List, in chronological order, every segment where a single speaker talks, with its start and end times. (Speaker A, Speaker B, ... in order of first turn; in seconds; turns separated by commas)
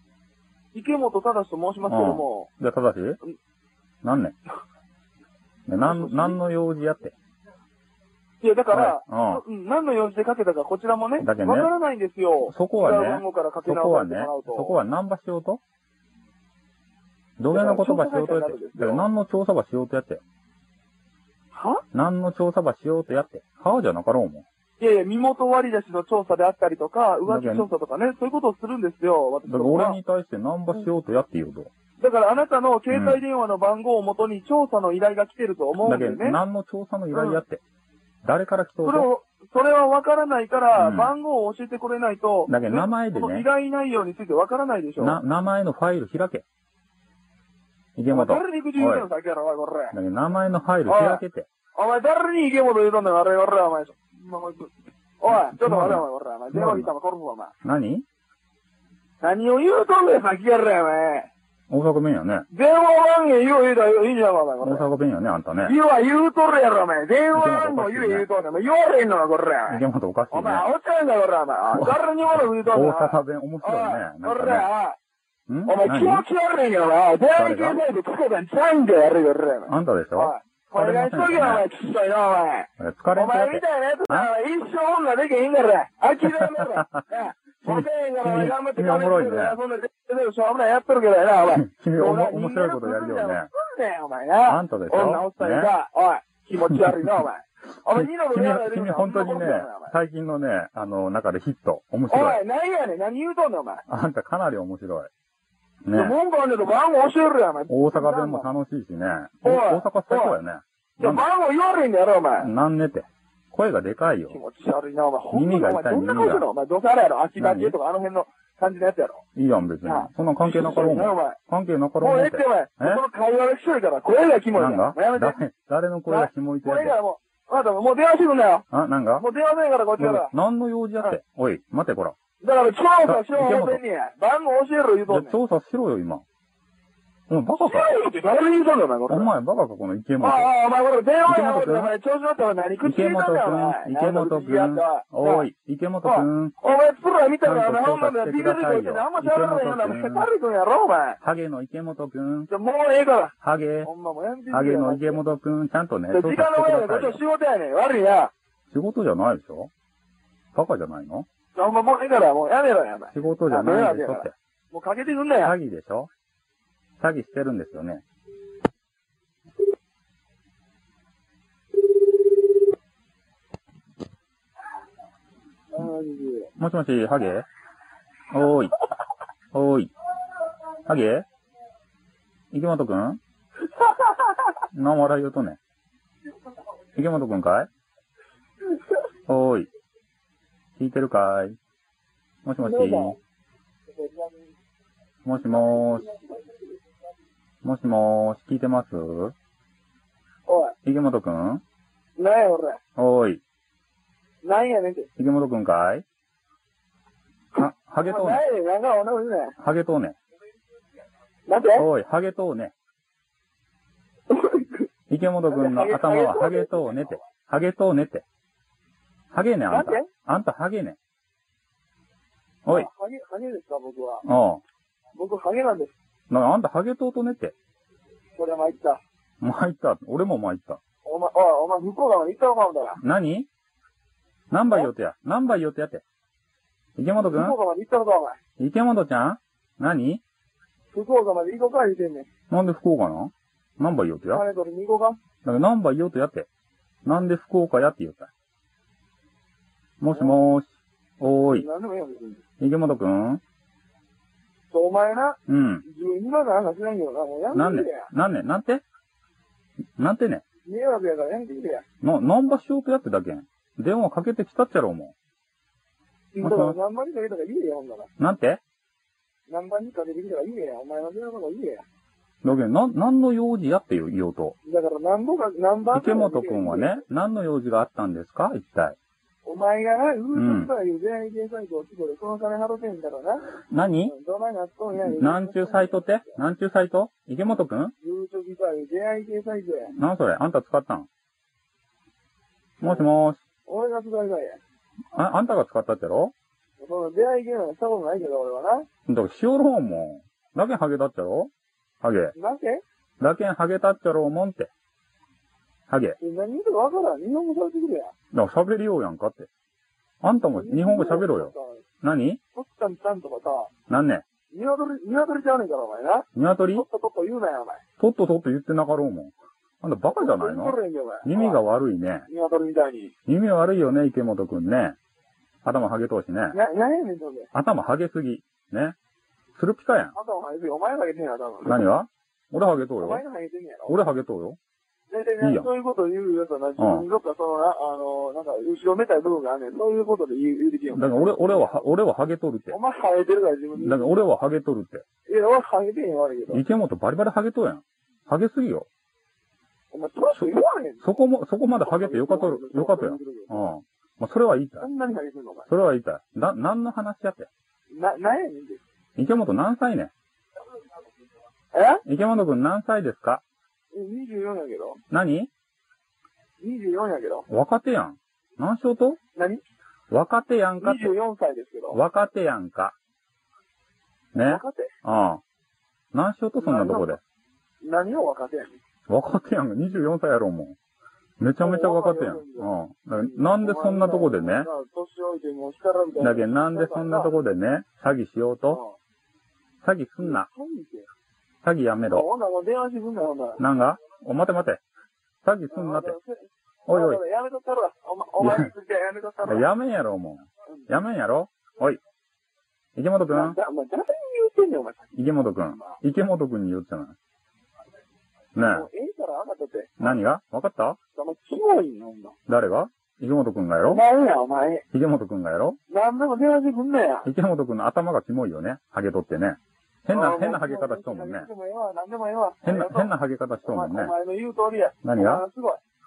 Speaker A: 0.7-2.5, Speaker B: 1.9-3.2, Speaker B: 4.0-4.4, Speaker B: 5.7-7.1, Speaker A: 5.8-6.4, Speaker A: 8.4-14.8, Speaker B: 8.7-9.4, Speaker B: 11.2-11.7, Speaker B: 12.5-15.6, Speaker B: 17.4-20.2, Speaker A: 17.5-19.1, Speaker A: 21.5-21.8, Speaker B: 21.9-24.5, Speaker A: 24.8-30.0, Speaker B: 27.3-27.7, Speaker B: 29.5-31.7, Speaker A: 32.0-36.4, Speaker B: 32.9-33.2, Speaker B: 35.8-37.6, Speaker A: 37.1-37.4, Speaker B: 38.2-39.1, Speaker A: 38.8-45.2, Speaker B: 40.7-41.1, Speaker B: 42.5-43.5, Speaker B: 45.0-46.5, Speaker B: 48.0-49.1, Speaker A: 48.1-50.0, Speaker B: 49.9-51.5, Speaker A: 50.9-51.2, Speaker A: 51.8-57.5, Speaker B: 55.3-56.9, Speaker B: 57.6-58.0, Speaker A: 59.2-61.3, Speaker B: 61.7-62.5, Speaker A: 62.5-64.9, Speaker B: 64.6-65.7, Speaker A: 65.6-75.0, Speaker B: 67.3-68.3, Speaker B: 69.7-70.7, Speaker B: 71.7-74.7, Speaker B: 75.5-76.2, Speaker A: 75.7-99.9, Speaker B: 77.3-77.8, Speaker B: 79.7-81.7, Speaker B: 82.8-84.3, Speaker B: 86.7-87.0, Speaker B: 87.6-89.6, Speaker B: 91.5-93.5, Speaker B: 94.5-95.7, Speaker B: 96.7-97.1, Speaker B: 97.9-102.4, Speaker A: 102.1-103.8, Speaker B: 103.9-105.1, Speaker B: 105.8-106.2, Speaker A: 105.9-108.5, Speaker B: 107.7-111.2, Speaker A: 109.4-110.4, Speaker A: 111.0-112.5, Speaker B: 112.4-114.4, Speaker A: 114.3-119.2, Speaker B: 115.3-116.5, Speaker B: 117.4-117.8, Speaker B: 119.4-123.0, Speaker A: 119.8-121.4, Speaker A: 122.0-125.4, Speaker B: 124.5-127.0, Speaker A: 126.1-128.7, Speaker B: 128.7-129.3, Speaker A: 129.2-130.3, Speaker B: 130.0-132.2, Speaker A: 132.4-135.4, Speaker B: 133.0-133.8, Speaker B: 135.1-136.2, Speaker B: 137.3-138.0, Speaker A: 137.6-139.3, Speaker B: 139.1-140.5, Speaker A: 140.2-145.5, Speaker B: 141.2-141.9, Speaker B: 142.8-146.6, Speaker A: 146.0-151.2, Speaker B: 147.4-150.3, Speaker B: 151.2-152.5, Speaker A: 152.5-155.2, Speaker B: 153.4-153.9, Speaker B: 154.5-157.2, Speaker A: 156.1-158.3, Speaker B: 158.7-159.7, Speaker B: 160.5-161.3, Speaker A: 161.6-165.6, Speaker B: 163.1-164.3, Speaker B: 165.4-166.1, Speaker B: 167.0-168.0, Speaker A: 175.7-176.5, Speaker B: 176.6-177.5, Speaker B: 178.3-178.8, Speaker B: 179.5-179.9, Speaker B: 180.9-181.3, Speaker B: 182.5-183.2, Speaker B: 184.7-185.6, Speaker B: 186.9-187.7, Speaker B: 189.3-189.7, Speaker B: 190.8-191.6, Speaker B: 192.4-193.2, Speaker A: 192.6-193.2, Speaker A: 193.9-194.4, Speaker B: 195.2-196.2, Speaker A: 195.6-196.2, Speaker B: 197.6-199.3, Speaker A: 200.5-200.8, Speaker B: 200.8-201.6, Speaker A: 202.2-202.8, Speaker B: 203.0-203.4, Speaker A: 204.4-205.1, Speaker B: 205.2-206.1, Speaker B: 207.5-208.4, Speaker A: 208.0-209.6, Speaker B: 209.6-210.2, Speaker A: 211.5-211.9, Speaker B: 211.8-212.7, Speaker A: 214.3-214.9, Speaker B: 215.1-218.2, Speaker A: 215.5-217.2, Speaker B: 219.3-221.0, Speaker A: 219.7-220.1, Speaker A: 222.7-224.2, Speaker B: 224.2-224.6, Speaker A: 225.2-225.9, Speaker B: 226.3-227.6, Speaker A: 228.4-229.0, Speaker B: 229.4-230.8, Speaker A: 231.1-233.0, Speaker B: 233.0-233.5, Speaker B: 234.5-236.0, Speaker B: 237.0-237.6, Speaker A: 237.2-238.4, Speaker B: 238.6-240.2, Speaker A: 240.9-242.3, Speaker B: 242.5-244.4, Speaker A: 244.3-245.2, Speaker B: 245.4-246.5, Speaker B: 247.1-248.3, Speaker B: 250.0-251.7, Speaker A: 251.5-252.4, Speaker B: 252.6-253.4, Speaker A: 254.7-258.1, Speaker B: 255.5-255.8, Speaker B: 257.5-258.8, Speaker B: 260.0-260.4, Speaker A: 260.6-261.9, Speaker B: 262.0-265.1, Speaker A: 266.4-268.1, Speaker B: 266.4-266.8, Speaker B: 268.2-268.6, Speaker A: 269.5-271.9, Speaker B: 272.4-274.6, Speaker A: 274.6-277.0, Speaker B: 275.9-279.0, Speaker A: 279.4-283.5, Speaker B: 280.4-280.7, Speaker B: 283.7-284.1, Speaker A: 284.0-286.4, Speaker B: 285.0-287.9, Speaker A: 288.0-289.9, Speaker B: 289.9-291.1, Speaker B: 292.8-293.4, Speaker A: 293.7-294.6, Speaker B: 295.1-296.3, Speaker A: 296.8-298.9, Speaker B: 299.1-302.3, Speaker A: 302.4-302.8, Speaker B: 303.2-304.7, Speaker B: 305.9-306.2, Speaker A: 306.2-308.1, Speaker B: 308.3-309.5, Speaker B: 310.2-312.4, Speaker A: 310.6-311.9, Speaker A: 312.5-313.7, Speaker B: 313.9-314.2, Speaker A: 314.5-317.8, Speaker B: 316.4-316.9, Speaker B: 318.0-322.3, Speaker A: 320.1-321.6, Speaker A: 322.3-323.1, Speaker B: 323.3-325.0, Speaker B: 325.6-326.6, Speaker A: 326.5-327.5, Speaker B: 327.5-329.0, Speaker B: 329.6-330.1, Speaker A: 330.1-331.9, Speaker B: 331.6-333.2, Speaker A: 333.0-333.9, Speaker B: 333.9-334.6, Speaker A: 335.1-341.8, Speaker B: 335.4-335.7, Speaker B: 336.8-337.1, Speaker B: 340.9-342.8, Speaker A: 342.7-344.2, Speaker B: 343.8-345.1, Speaker A: 345.3-346.6, Speaker B: 346.5-348.9, Speaker A: 349.9-351.0, Speaker B: 351.0-354.9, Speaker A: 351.8-353.7, Speaker A: 354.8-355.7, Speaker B: 355.7-357.5, Speaker A: 357.9-358.8, Speaker B: 359.2-360.1, Speaker A: 361.7-362.0, Speaker B: 362.1-363.4, Speaker A: 363.9-365.0, Speaker B: 365.1-365.5, Speaker A: 366.6-367.5, Speaker B: 367.5-369.2, Speaker A: 369.4-369.6, Speaker B: 370.1-371.1, Speaker A: 370.8-372.0, Speaker B: 371.9-372.9, Speaker B: 374.3-375.4, Speaker A: 374.4-374.9, Speaker B: 376.1-377.2, Speaker A: 376.6-377.2, Speaker A: 377.8-378.8, Speaker B: 379.1-380.8, Speaker B: 381.4-384.7, Speaker A: 381.6-387.3, Speaker B: 386.2-388.8, Speaker A: 388.7-389.0, Speaker B: 389.8-390.5, Speaker A: 390.2-391.1, Speaker B: 391.6-392.3, Speaker A: 392.1-393.6, Speaker B: 393.6-394.8, Speaker B: 395.4-396.2, Speaker A: 395.7-399.7, Speaker B: 396.9-397.2, Speaker B: 398.4-398.7, Speaker B: 399.4-402.0, Speaker B: 403.0-403.6, Speaker A: 403.3-405.1, Speaker B: 405.1-407.2, Speaker A: 405.7-406.0, Speaker B: 408.6-408.9, Speaker A: 408.6-410.2, Speaker B: 410.0-411.0, Speaker A: 411.1-412.4, Speaker B: 412.5-414.0, Speaker A: 413.9-414.9, Speaker B: 414.9-415.8, Speaker A: 415.9-417.3, Speaker B: 417.2-421.5, Speaker A: 420.1-423.1, Speaker B: 422.6-424.1, Speaker A: 423.6-425.8, Speaker B: 425.0-425.4